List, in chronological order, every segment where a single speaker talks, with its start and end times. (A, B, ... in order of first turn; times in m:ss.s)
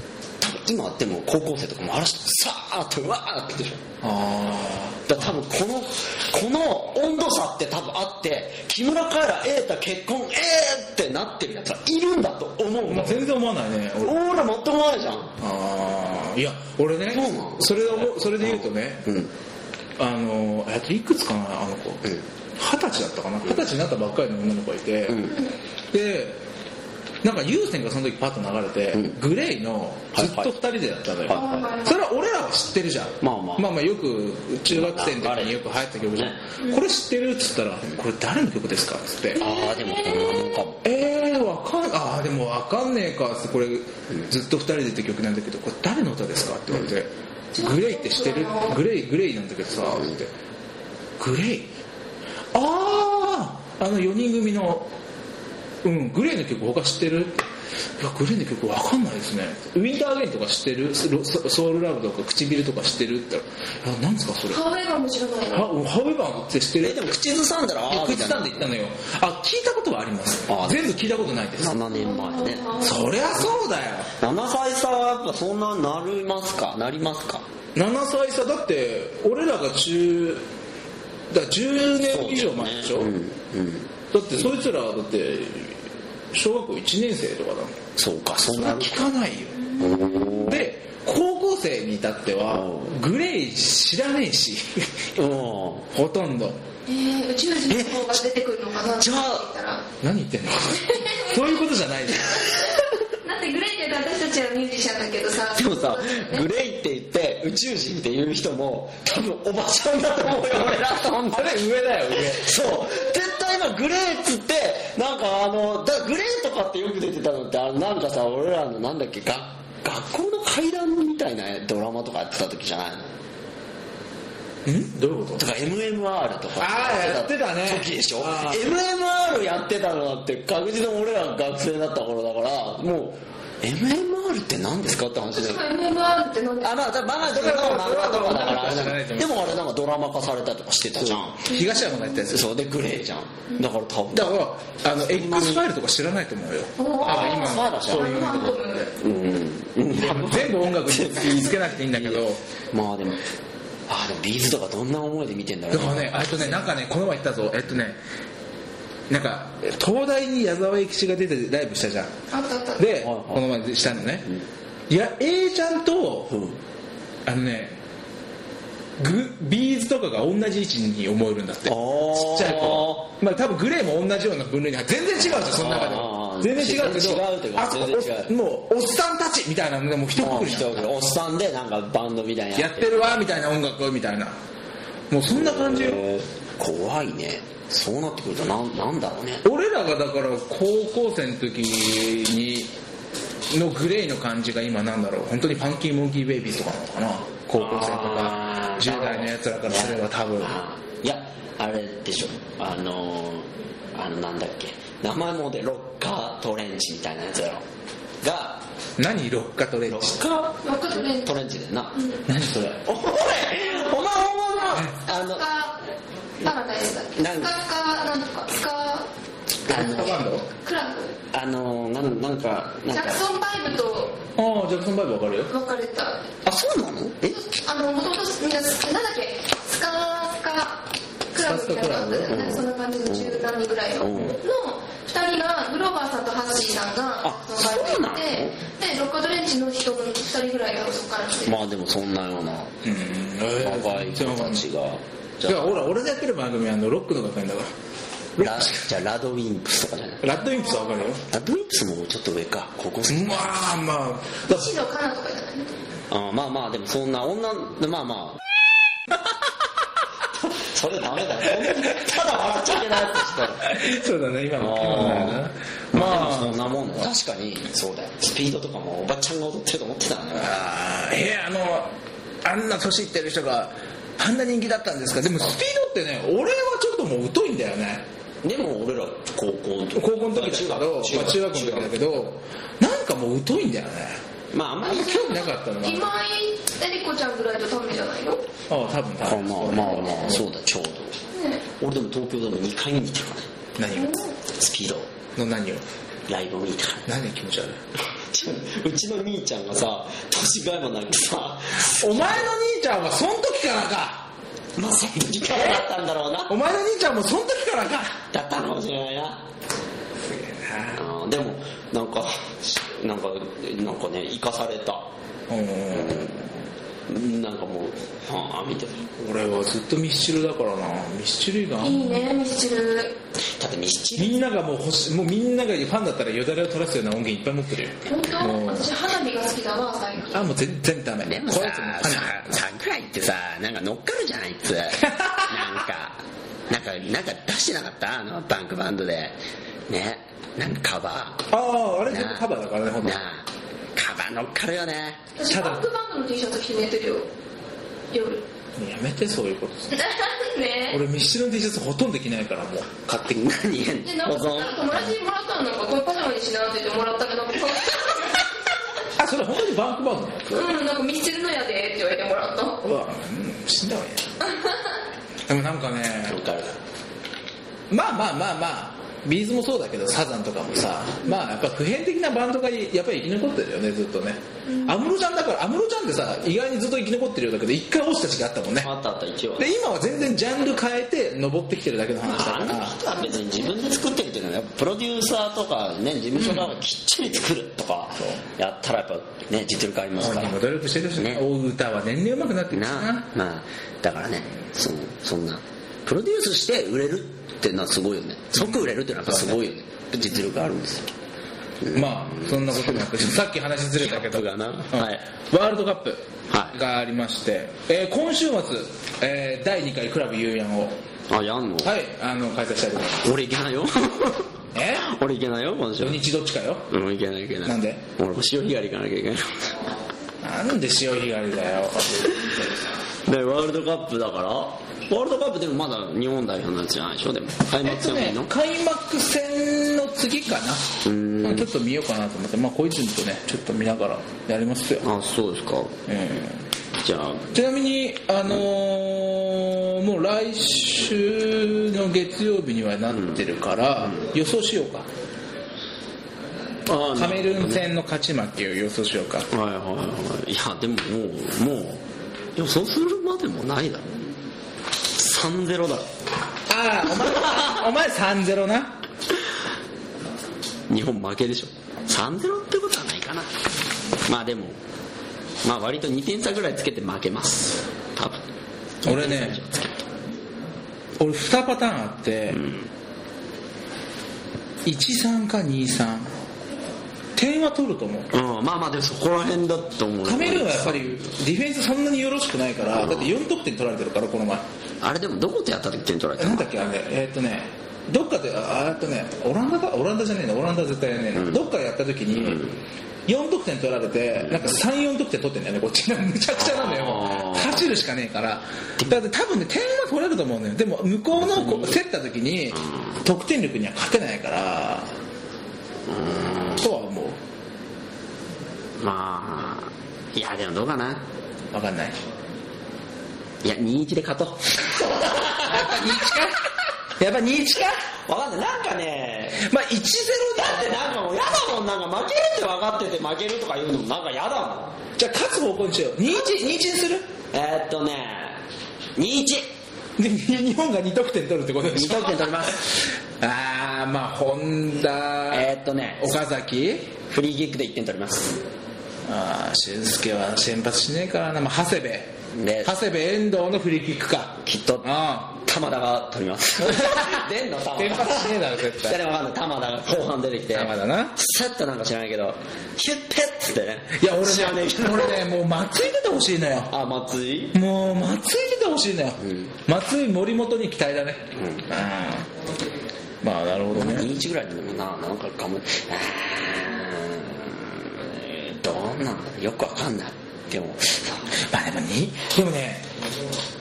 0:00.4-0:03.8 A
0:04.0-0:05.3 B
0:05.1-0:13.3 A
0:12.8-0:14.2 B
0:14.0-0:15.3 A
0:15.4-0:19.1 B
0:17.1-0:19.3 A
0:20.0-0:25.3 B
0:25.1-0:25.4 A
0:25.9-0:26.4 B
0:27.2-0:39.4 B
0:28.9-0:29.2 A
0:30.2-0:30.5 A
0:31.3-0:31.7 A
0:31.3-0:32.0 C
0:33.2-0:33.7 A
0:34.7-0:35.6 A
0:39.4-0:40.7 C
0:39.4-0:40.8 A
0:40.8-0:50.3 B
0:47.6-0:48.8 C
0:51.2-0:51.7 B
0:52.5-0:54.9 B
0:55.8-0:57.4 B
0:58.0-1:04.6 B
1:04.5-1:05.7 C
1:05.5-1:07.1 B
1:06.8-1:08.7 A
1:07.9-1:11.8 B
1:10.5-1:12.8 A
1:11.9-1:13.0 C
1:12.8-1:14.1 B
1:14.2-1:17.4 A
1:17.8-1:20.4 B
1:21.3-1:23.1 B
1:22.0-1:23.9 A
1:24.1-1:25.8 B
1:26.3-1:27.8 B
1:28.0-1:29.1 A
1:28.5-1:29.6 B
1:29.8-1:30.4 C
1:29.8-1:30.7 A
1:30.4-1:34.9 B
1:32.5-1:33.0 A
1:35.2-1:35.9 A
1:35.9-1:36.6 B
1:36.9-1:39.9 C
1:37.7-1:38.2 A
1:39.0-1:39.5 A
1:40.0-1:42.6 B
1:40.8-1:41.4 C
1:42.5-1:46.5 C
1:45.5-1:51.6 A
1:51.3-1:52.6 B
1:52.1-2:03.1 A
2:04.7-2:05.5 B
2:05.4-2:15.6 A
2:06.6-2:08.7 B
2:15.4-2:16.9 C
2:16.6-2:21.5 A
2:17.2-2:19.5 B
2:21.1-2:22.5 B
2:21.5-2:22.1 C
2:22.3-2:25.6 A
2:24.1-2:28.6 B
2:26.8-2:28.9 C
2:27.0-2:28.4 A
2:29.0-2:33.2 A
2:29.9-2:32.4 B
2:33.9-2:36.8 A
2:35.7-2:38.0 B
2:39.1-2:42.1 B
2:42.3-2:42.9 C
2:42.8-2:44.3 B
2:43.0-2:43.4 A
2:44.9-2:46.3 B
2:46.3-2:46.6 A
2:47.3-2:47.8 B
2:49.0-3:01.0 B
2:51.7-2:53.1 A
2:55.2-2:58.3 A
3:00.2-3:03.2 A
3:02.6-3:04.4 B
3:05.1-3:06.0 B
3:05.3-3:09.4 A
3:09.4-3:12.7 B
3:13.5-3:20.6 B
3:17.6-3:27.6 A
3:28.2-3:28.6 A
3:29.0-3:30.2 B
3:29.9-3:32.0 A
3:30.6-3:31.4 C
3:32.0-3:32.2 C
3:32.3-3:32.8 B
3:32.8-3:35.5 A
3:35.2-3:35.8 C
3:36.4-3:39.1 C
3:37.2-3:37.5 A
3:39.7-3:40.2 A
3:39.7-3:40.5 B
3:39.8-3:41.2 C
3:41.3-3:43.2 A
3:42.9-3:44.2 C
3:44.4-3:45.5 B
3:45.5-3:46.3 C
3:46.4-3:47.4 A
3:47.4-4:01.6 C
3:51.4-3:52.4 B
3:52.3-3:54.4 A
3:57.2-3:58.6 A
4:01.4-4:02.8 A
4:02.8-4:04.7 B
4:03.6-4:05.8 A
4:05.5-4:07.7 B
4:08.4-4:08.9 B
4:08.4-4:10.2 A
4:10.2-4:11.2 B
4:10.5-4:11.0 C
4:11.3-4:13.7 A
4:13.1-4:14.7 B
4:14.5-4:15.7 C
4:16.1-4:18.4 A
4:20.4-4:23.6 A
4:23.6-4:26.7 B
4:24.6-4:30.7 A
4:30.4-4:31.9 B
4:32.4-4:38.1 B
4:38.4-4:42.2 A
4:39.9-4:44.2 B
4:44.5-4:45.4 A
4:44.9-4:46.1 B
4:45.0-4:48.5 C
4:48.7-4:50.4 B
4:49.2-4:51.2 A
4:51.3-4:51.6 C
4:51.8-4:53.5 A
4:53.8-4:54.2 B
4:54.0-4:54.3 C
4:54.5-4:55.1 A
4:55.4-4:55.8 B
4:56.3-4:57.1 A
4:57.1-4:57.8 B
4:58.0-5:02.4 A
5:01.8-5:04.3 B
5:04.8-5:06.6 A
5:06.5-5:08.2 B
5:08.3-5:09.4 A
5:10.2-5:11.0 B
5:11.0-5:15.1 A
5:15.5-5:16.5 B
5:15.9-5:16.3 A
5:17.1-5:19.1 A
5:19.2-5:22.3 B
5:21.8-5:23.2 C
5:23.6-5:24.4 A
5:24.2-5:28.9 B
5:28.1-5:30.5 C
5:30.3-5:32.5 B
5:31.2-5:39.4 A
5:35.0-5:35.7 B
5:39.9-5:41.5 A
5:41.5-5:43.2 B
5:42.1-5:42.5 A
5:43.0-5:45.2 A
5:45.4-5:47.3 C
5:45.5-5:45.8 B
5:48.1-5:48.5 C
5:48.8-5:49.9 B
5:49.9-5:51.0 C
5:50.9-5:53.6 B
5:53.3-5:55.0 A
5:54.0-5:58.5 C
5:59.2-6:00.7 B
6:00.5-6:02.9 C
6:02.8-6:04.4 B
6:05.5-6:06.5 B
6:06.3-6:06.8 A
6:07.9-6:18.9 B
6:18.8-6:19.7 A
6:19.6-6:23.0 B
6:22.2-6:30.6 A
6:30.2-6:33.3 B
6:31.2-6:31.4 A
6:32.7-6:41.1 A
6:38.6-6:39.6 B
6:41.8-6:43.3 A
6:41.9-6:51.0 B
6:44.0-6:45.2 A
6:46.5-6:46.8 A
6:51.3-6:51.9 A
6:51.8-6:53.3 B
6:53.2-6:56.2 A
6:54.7-6:55.1 B
6:56.0-6:56.9 B
6:56.9-6:59.8 A
6:57.6-6:58.0 B
7:00.4-7:02.6 B
7:03.2-7:08.5 A
7:07.8-7:15.1 B
7:11.0-7:11.7 A
7:15.0-7:16.0 A
7:16.1-7:16.6 B
7:17.0-7:17.5 A
7:17.5-7:25.1 B
7:23.1-7:23.4 A
7:26.9-7:27.9 A
7:27.1-7:29.5 B
7:29.5-7:32.0 A
7:32.6-7:34.3 A
7:35.1-7:36.1 A
7:36.7-7:39.0 B
7:37.2-7:37.8 A
7:40.9-7:43.6 A
7:44.2-7:44.8 A
7:45.6-7:48.4 A
7:49.0-7:50.0 A
7:49.0-7:49.6 B
7:51.2-7:52.6 B
7:52.5-7:52.9 A
7:54.8-7:56.3 B
7:57.4-7:58.3 B
7:58.3-8:01.2 A
8:00.2-8:04.6 B
8:03.0-8:03.3 A
8:05.0-8:06.8 A
8:06.4-8:12.6 B
8:11.4-8:11.6 A
8:12.4-8:12.8 A
8:13.3-8:25.1 B
8:14.4-8:14.7 A
8:16.6-8:18.0 A
8:21.4-8:22.0 A
8:22.8-8:23.1 A
8:26.1-8:26.9 A
8:26.8-8:27.4 B
8:29.0-8:31.3 A
8:31.7-8:32.2 B
8:33.6-8:36.4 A
8:35.5-8:36.6 B
8:37.2-8:38.0 B
8:38.3-8:39.6 A
8:39.6-8:40.9 B
8:40.6-8:45.0 A
8:45.2-8:47.3 B
8:47.5-8:48.6 A
8:49.2-8:49.7 A
8:50.2-8:55.7 B
8:51.9-8:52.9 A
8:55.5-8:56.4 A
8:56.2-8:57.2 B
8:57.3-8:58.6 A
8:59.3-9:05.6 B
9:02.5-9:02.9 A
9:04.6-9:15.5 A
9:07.0-9:07.4 B
9:08.0-9:09.2 B
9:10.7-9:11.4 B
9:14.2-9:16.9 B
9:16.9-9:17.8 A
9:17.7-9:22.5 B
9:19.4-9:19.7 A
9:21.5-9:21.9 A
9:23.4-9:24.4 B
9:23.9-9:31.5 A
9:31.6-9:33.1 B